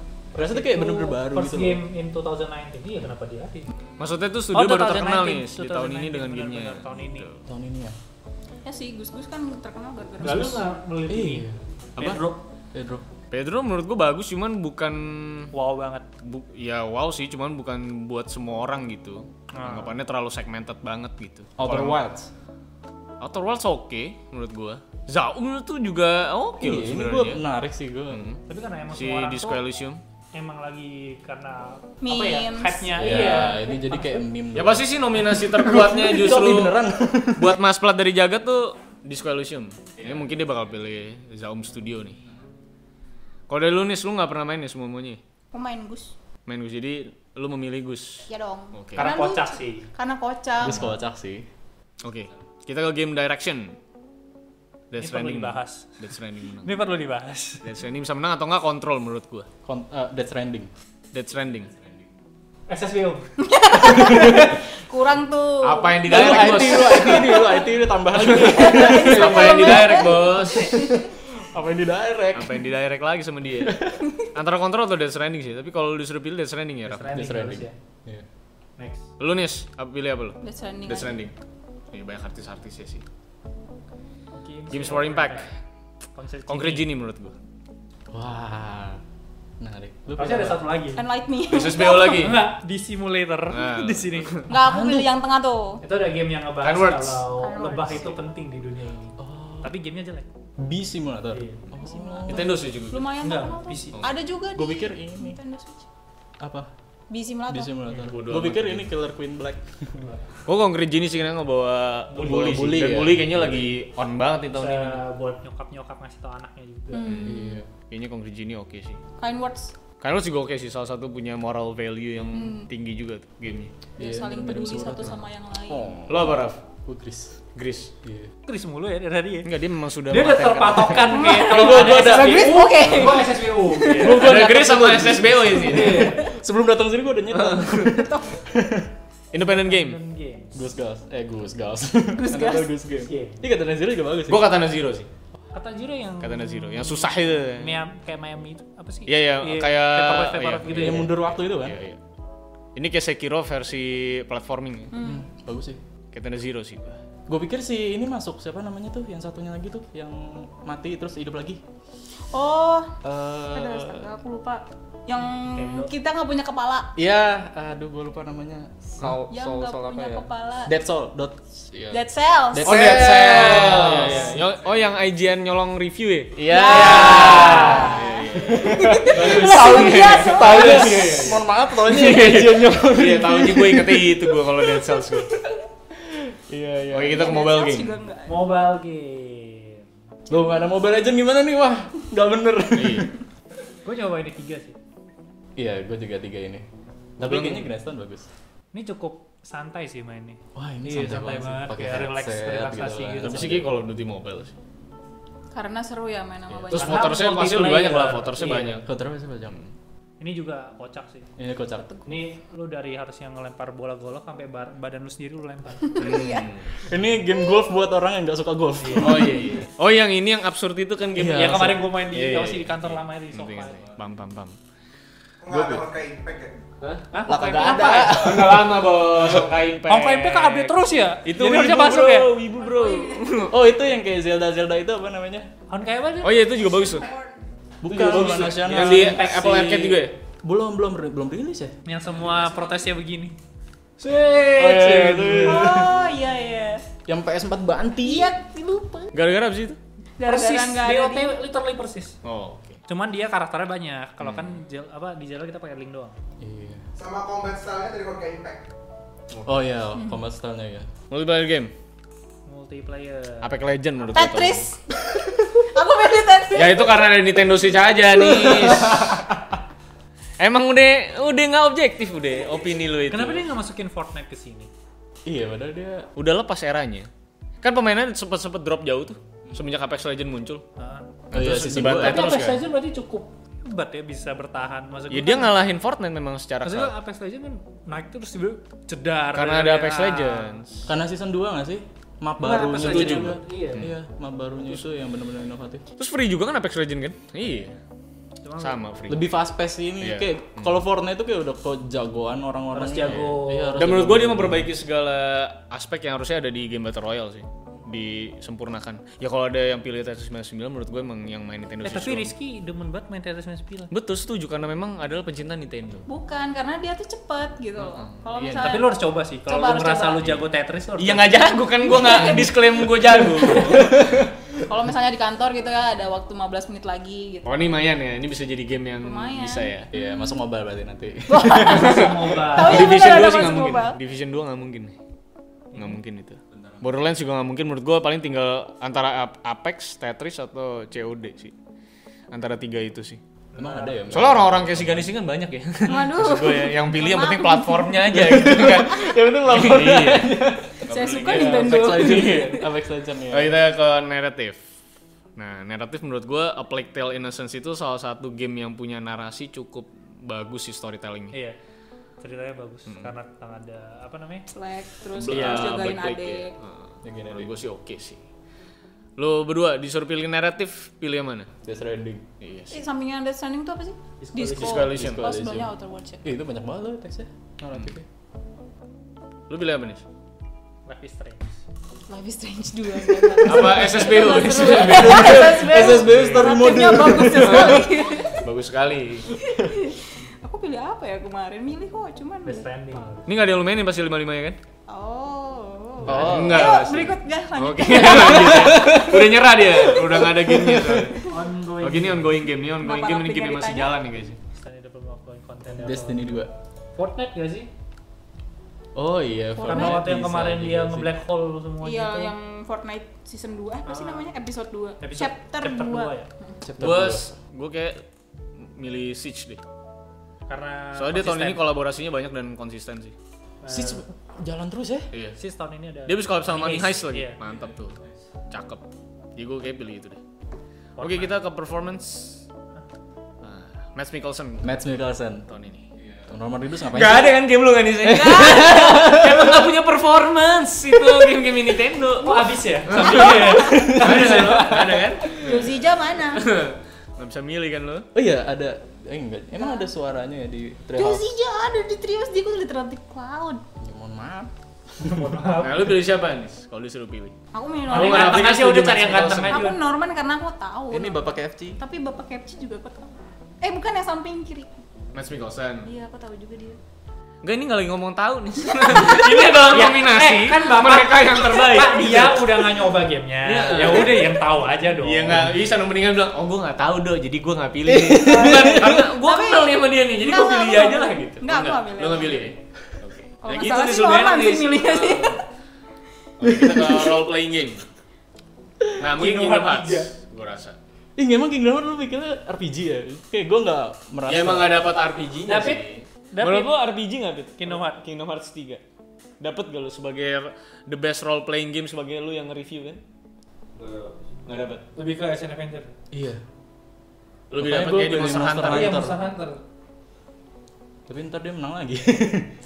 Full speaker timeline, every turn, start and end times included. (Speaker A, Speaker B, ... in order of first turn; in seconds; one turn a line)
Speaker A: 0.3-1.8
Speaker B: 0.4-3.7
Speaker C: 4.0-7.4
Speaker B: 4.5-7.3
Speaker A: 7.5-8.0
Speaker D: 8.6-10.6
Speaker B: 10.2-11.4
Speaker A: 10.2-11.6
Speaker B: 12.0-12.4
Speaker A: 12.7-13.0
Speaker C: 13.3-15.5
Speaker B: 15.5-16.1
Speaker C: 16.2-22.0
Speaker B: 19.5-19.9
Speaker A: 21.6-22.3
Speaker C: 23.2-27.4
Speaker A: 26.6-28.2
Speaker C: 28.1-28.4
Speaker B: 28.5-29.6
Speaker C: 28.9-30.0
Speaker B: 30.3-34.2
Speaker D: 32.0-33.5
Speaker A: 32.9-37.6
Speaker C: 34.5-36.8
Speaker C: 37.4-42.2
Speaker C: 43.5-45.2
Speaker D: 45.5-46.1
Speaker C: 46.5-49.1
Speaker D: 48.3-50.9
Speaker B: 49.0-49.9
Speaker A: 50.6-51.5
Speaker C: 52.0-53.8
Speaker C: 54.9-56.7
Speaker B: 55.0-56.0
Speaker B: 56.6-57.6
Speaker C: 57.6-59.5
Speaker A: 59.6-60.7
Speaker C: 61.1-61.7
Speaker B: 62.7-63.3
Speaker D: 63.4-67.7
Speaker A: 63.8-64.6
Speaker C: 65.6-67.5
Speaker A: 66.1-72.6
Speaker C: 68.1-70.9
Speaker D: 68.3-71.0
Speaker C: 72.3-73.8
Speaker A: 73.6-74.1
Speaker C: 74.3-77.2
Speaker B: 76.9-77.7
Speaker A: 77.1-78.2
Speaker B: 78.8-79.0
Speaker C: 79.2-81.3
Speaker D: 80.4-81.2
Speaker C: 81.9-83.0
Speaker B: 84.3-85.5
Speaker C: 84.7-85.5
Speaker B: 86.1-86.9
Speaker C: 86.5-87.3
Speaker A: 88.1-89.0
Speaker A: 89.6-90.6
Speaker B: 90.2-91.0
Speaker D: 90.9-92.3
Speaker C: 91.5-92.4
Speaker B: 92.1-94.5
Speaker C: 93.5-94.5
Speaker D: 94.5-95.8
Speaker A: 94.5-95.1
Speaker B: 95.8-100.3
Speaker C: 96.6-97.2
Speaker D: 97.3-98.2
Speaker A: 99.2-99.7
Speaker A: 100.6-102.6
Speaker B: 101.3-101.6
Speaker D: 101.8-105.8
Speaker C: 102.3-103.1
Speaker B: 103.2-104.0
Speaker A: 104.5-105.4
Speaker A: 106.4-106.7
Speaker D: 107.1-107.7
Speaker A: 107.5-109.9
Speaker C: 108.0-108.9
Speaker B: 110.0-110.3
Speaker C: 110.5-115.0
Speaker B: 112.1-112.5
Speaker A: 112.1-113.7
Speaker B: 114.5-117.1
Speaker D: 116.9-117.6
Speaker C: 117.0-119.0
Speaker A: 117.2-117.7
Speaker D: 119.2-119.7
Speaker C: 120.0-123.7
Speaker D: 122.3-122.7
Speaker D: 124.0-126.0
Speaker A: 124.0-127.4
Speaker C: 126.1-126.6
Speaker C: 127.5-127.9
Speaker A: 128.0-128.3
Speaker B: 128.4-129.5
Speaker C: 129.4-131.3
Speaker B: 130.1-134.3
Speaker D: 131.1-134.2
Speaker A: 131.3-132.9
Speaker A: 133.9-138.9
Speaker C: 134.0-136.2
Speaker B: 135.7-136.3
Speaker D: 135.8-136.1
Speaker C: 137.3-138.0
Speaker D: 137.8-138.3
Speaker C: 139.3-140.0
Speaker B: 139.4-140.6
Speaker A: 140.5-144.5
Speaker D: 142.1-142.7
Speaker B: 143.0-143.4
Speaker C: 144.3-145.1
Speaker B: 145.5-151.1
Speaker C: 146.2-147.8
Speaker C: 149.1-152.0
Speaker A: 150.7-151.8
Speaker C: 152.7-154.9
Speaker D: 154.9-155.2
Speaker A: 155.0-155.8
Speaker C: 156.1-157.0
Speaker A: 157.3-161.6
Speaker D: 162.3-166.9
Speaker A: 163.0-164.1
Speaker B: 165.5-165.9
Speaker A: 166.9-174.4
Speaker D: 169.3-170.7
Speaker D: 171.9-172.9
Speaker C: 172.6-185.3
Speaker B: 173.7-174.2
Speaker A: 176.4-184.1
Speaker D: 176.5-181.1
Speaker B: 176.9-178.0
Speaker A: 185.9-187.4
Speaker C: 186.9-187.9
Speaker D: 187.1-188.4
Speaker B: 188.2-189.9
Speaker A: 190.3-193.1
Speaker C: 192.7-193.1
Speaker B: 193.8-194.8
Speaker A: 195.6-196.7
Speaker C: 197.2-197.7
Speaker A: 197.2-198.3
Speaker B: 198.7-203.5
Speaker A: 200.5-203.7
Speaker C: 203.2-204.5
Speaker D: 205.5-207.4
Speaker C: 206.7-208.8
Speaker B: 206.7-208.8
Speaker A: 208.8-209.6
Speaker B: 210.2-211.3
Speaker A: 211.4-211.9
Speaker B: 212.1-216.0
Speaker D: 215.8-216.5
Speaker C: 216.0-216.7
Speaker A: 216.8-219.6
Speaker B: 218.8-219.3
Speaker C: 219.0-224.6
Speaker A: 221.1-221.8
Speaker B: 221.3-223.9
Speaker E: 225.4-226.6
Speaker A: 225.5-225.8
Speaker C: 226.8-233.5
Speaker B: 227.1-228.2
Speaker A: 227.3-229.4
Speaker B: 229.9-232.3
Speaker D: 232.7-233.2
Speaker A: 233.5-235.5
Speaker B: 235.7-236.4
Speaker C: 236.2-237.1
Speaker D: 236.7-237.2
Speaker A: 237.8-241.8
Speaker C: 237.9-240.1
Speaker B: 238.1-239.6
Speaker B: 241.8-243.4
Speaker C: 244.0-245.5
Speaker A: 244.5-246.1
Speaker B: 244.6-245.4
Speaker D: 245.4-246.8
Speaker A: 247.1-248.3
Speaker D: 248.0-249.1
Speaker C: 249.1-249.8
Speaker D: 250.2-251.3
Speaker B: 250.2-252.2
Speaker C: 252.2-252.8
Speaker B: 252.9-256.2
Speaker C: 254.2-254.6
Speaker A: 256.4-256.8
Speaker E: 256.9-258.6
Speaker C: 259.3-259.6
Speaker A: 259.4-260.9
Speaker C: 261.1-261.7
Speaker B: 262.4-263.5
Speaker C: 263.4-264.7
Speaker D: 264.1-266.9
Speaker C: 266.5-269.2
Speaker A: 268.5-269.3
Speaker C: 270.4-273.4
Speaker B: 273.1-274.7
Speaker A: 275.2-276.1
Speaker C: 276.1-277.1
Speaker C: 277.6-280.6
Speaker B: 280.8-281.1
Speaker A: 281.3-282.4
Speaker C: 281.3-282.6
Speaker B: 281.9-285.5
Speaker C: 285.1-286.9
Speaker B: 286.6-290.6
Speaker C: 289.3-290.9
Speaker A: 290.9-295.8
Speaker B: 292.4-293.9
Speaker C: 292.7-293.9
Speaker C: 296.0-297.7
Speaker B: 298.4-298.8
Speaker C: 298.6-299.3
Speaker A: 299.1-304.7
Speaker C: 300.0-300.7
Speaker B: 302.7-303.8
Speaker C: 303.8-312.3
Speaker B: 311.8-313.9
Speaker C: 313.9-316.1
Speaker D: 316.1-320.4
Speaker C: 317.8-318.5
Speaker A: 318.4-318.8
Speaker B: 318.6-321.3
Speaker C: 321.0-324.0
Speaker D: 321.8-323.9
Speaker A: 323.6-324.3
Speaker D: 324.6-327.5
Speaker C: 327.4-329.9
Speaker D: 329.0-330.3
Speaker A: 329.9-332.0
Speaker D: 331.3-334.0
Speaker C: 331.6-334.9
Speaker B: 331.7-333.0
Speaker B: 335.7-336.0
Speaker C: 335.7-341.5
Speaker C: 342.3-343.2
Speaker B: 343.5-344.1
Speaker A: 343.6-345.1
Speaker C: 344.1-352.6
Speaker D: 345.9-348.3
Speaker A: 348.1-353.6
Speaker D: 350.9-352.7
Speaker C: 353.3-354.6
Speaker C: 355.4-361.4
Speaker B: 361.3-361.6
Speaker B: 362.2-364.5
Speaker C: 362.9-363.1
Speaker D: 364.5-366.5
Speaker C: 365.1-368.2
Speaker A: 367.0-367.5
Speaker C: 369.2-371.5
Speaker A: 371.6-372.2
Speaker C: 372.4-372.8
Speaker D: 372.7-376.2
Speaker B: 374.2-374.9
Speaker C: 374.5-375.3
Speaker A: 374.9-375.7
Speaker A: 376.2-378.0
Speaker C: 379.5-380.0
Speaker B: 380.9-381.6
Speaker D: 382.1-388.4
Speaker C: 383.4-386.6
Speaker A: 384.6-387.9
Speaker C: 387.3-389.3
Speaker D: 389.4-392.7
Speaker B: 392.4-393.3
Speaker C: 393.2-394.6
Speaker D: 394.9-399.1
Speaker A: 396.0-396.7
Speaker C: 396.1-401.3
Speaker A: 398.1-401.2
Speaker B: 401.3-402.3
Speaker C: 401.8-404.4
Speaker D: 402.8-404.0
Speaker B: 404.5-406.3
Speaker A: 405.8-406.5
Speaker B: 406.9-407.7
Speaker A: 408.9-411.1
Speaker D: 409.6-410.0
Speaker B: 409.6-412.3
Speaker D: 411.8-416.6
Speaker B: 413.9-414.3
Speaker B: 415.0-416.3
Speaker A: 416.6-417.3
Speaker C: 416.8-418.0
Speaker C: 418.6-419.6
Speaker B: 420.5-421.6
Speaker C: 420.9-423.1
Speaker B: 423.6-424.0
Speaker A: 423.7-425.1
Speaker C: 425.1-425.4
Speaker B: 425.4-427.4
Speaker C: 426.1-428.0
Speaker C: 428.5-428.8
Speaker C: 429.4-430.2
Speaker B: 431.0-431.3
Speaker C: 431.0-432.4
Speaker C: 433.4-434.7
Speaker A: 434.6-435.5
Speaker C: 435.5-435.9
Speaker A: 436.2-437.4
Speaker C: 436.9-448.1
Speaker A: 438.0-439.5
Speaker B: 442.2-445.0
Speaker D: 443.0-443.9
Speaker A: 443.7-444.3
Speaker D: 445.3-446.4
Speaker A: 448.1-451.3
Speaker D: 449.6-449.9
Speaker D: 450.9-453.6
Speaker A: 453.8-455.4
Speaker B: 455.0-455.9
Speaker C: 455.6-457.3
Speaker D: 457.5-458.5
Speaker C: 457.9-459.7
Speaker B: 457.9-459.8
Speaker D: 459.5-464.7
Speaker A: 460.9-461.8
Speaker C: 465.1-465.9
Speaker D: 465.8-466.8
Speaker C: 467.4-472.6
Speaker D: 468.8-469.4
Speaker B: 469.6-475.5
Speaker C: 473.4-474.4
Speaker C: 475.0-485.4
Speaker A: 477.9-479.1
Speaker D: 478.2-482.5
Speaker D: 483.4-485.4
Speaker C: 486.4-487.8
Speaker D: 486.4-487.2
Speaker C: 489.0-490.8
Speaker B: 489.1-490.1
Speaker A: 491.2-494.9
Speaker C: 494.3-498.8
Speaker B: 495.5-496.8
Speaker B: 497.6-498.0
Speaker C: 499.4-503.0
Speaker C: 504.4-504.8
Speaker B: 504.9-505.9
Speaker A: 506.1-506.4
Speaker C: 507.5-509.1
Speaker A: 507.6-509.2
Speaker B: 508.6-509.6
Speaker A: 511.1-512.5